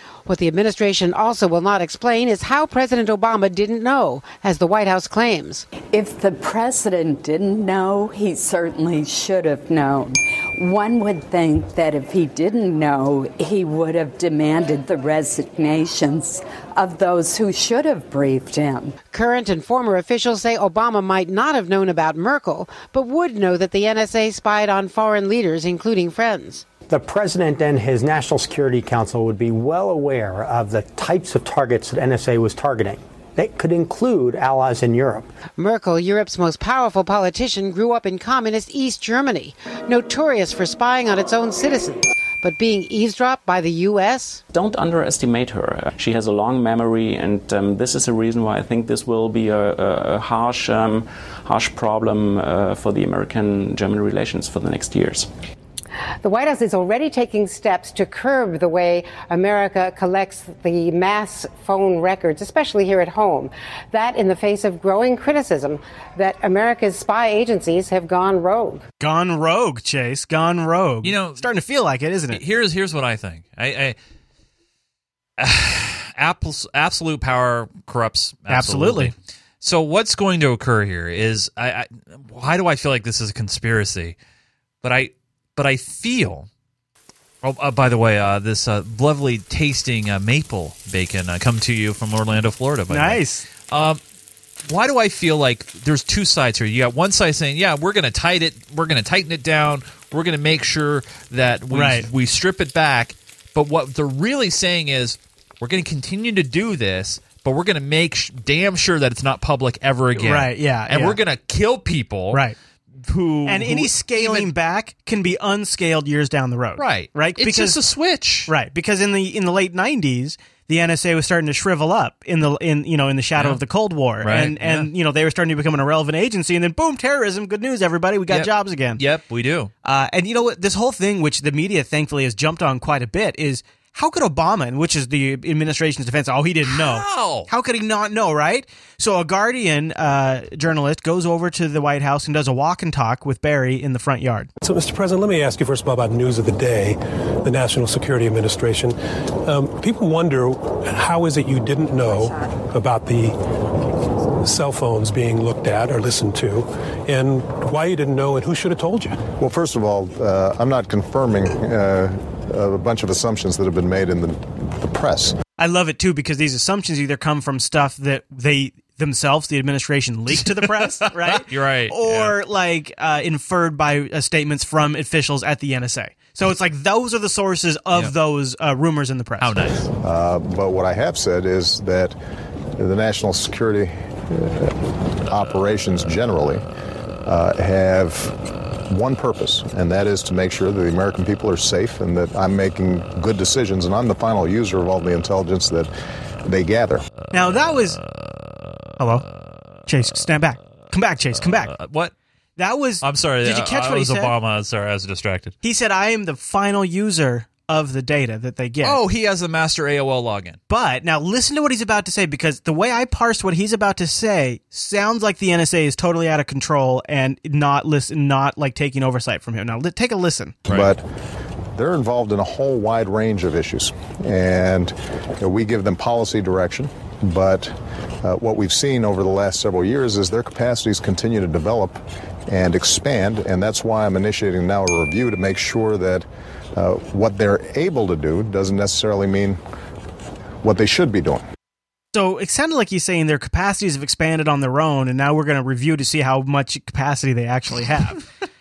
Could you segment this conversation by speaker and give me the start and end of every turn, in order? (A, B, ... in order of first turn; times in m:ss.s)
0:00.3-0:05.7 A
0:05.9-0:19.0 B
0:19.1-0:26.7 A
0:26.8-0:35.3 C
0:35.6-0:44.4 A
0:44.5-0:55.3 D
0:56.2-1:08.8 A
1:09.0-1:12.4 E
1:11.0-1:11.4 F
1:12.3-1:14.0 F
1:15.4-1:24.2 F
1:18.5-1:19.1 E
1:24.8-1:26.5 F
1:27.4-1:34.0 F
1:32.9-1:33.4 E
1:34.7-1:52.4 F
1:41.7-1:42.1 E
1:50.2-1:51.2 E
1:53.0-1:54.5 F
1:53.5-1:57.8 E
1:56.8-1:58.5 F
1:58.5-2:09.0 E
2:03.4-2:03.6 F
2:04.2-2:04.9 F
2:08.3-2:09.7 F
2:09.8-2:24.5 E
2:16.7-2:17.5 F
2:24.6-2:33.4 G
2:34.4-2:39.2 G
2:39.3-2:45.4 H
2:45.6-2:59.5 E
2:50.4-2:52.4 F
2:59.4-2:59.9 F
3:00.0-3:02.2 H
3:02.8-3:06.6 H
3:07.2-3:15.9 H
3:16.4-3:17.0 H
3:17.3-3:18.0 E
3:19.0-3:19.2 E
3:19.9-3:21.7 E
3:21.5-3:22.1 F
3:22.6-3:24.3 E
3:23.0-3:25.6 F
3:25.6-3:29.0 E
3:28.8-3:30.6 F
3:30.7-3:40.6 E
3:40.7-3:41.0 H
3:41.8-3:59.6 H
4:00.6-4:01.4 H
4:02.1-4:08.2 E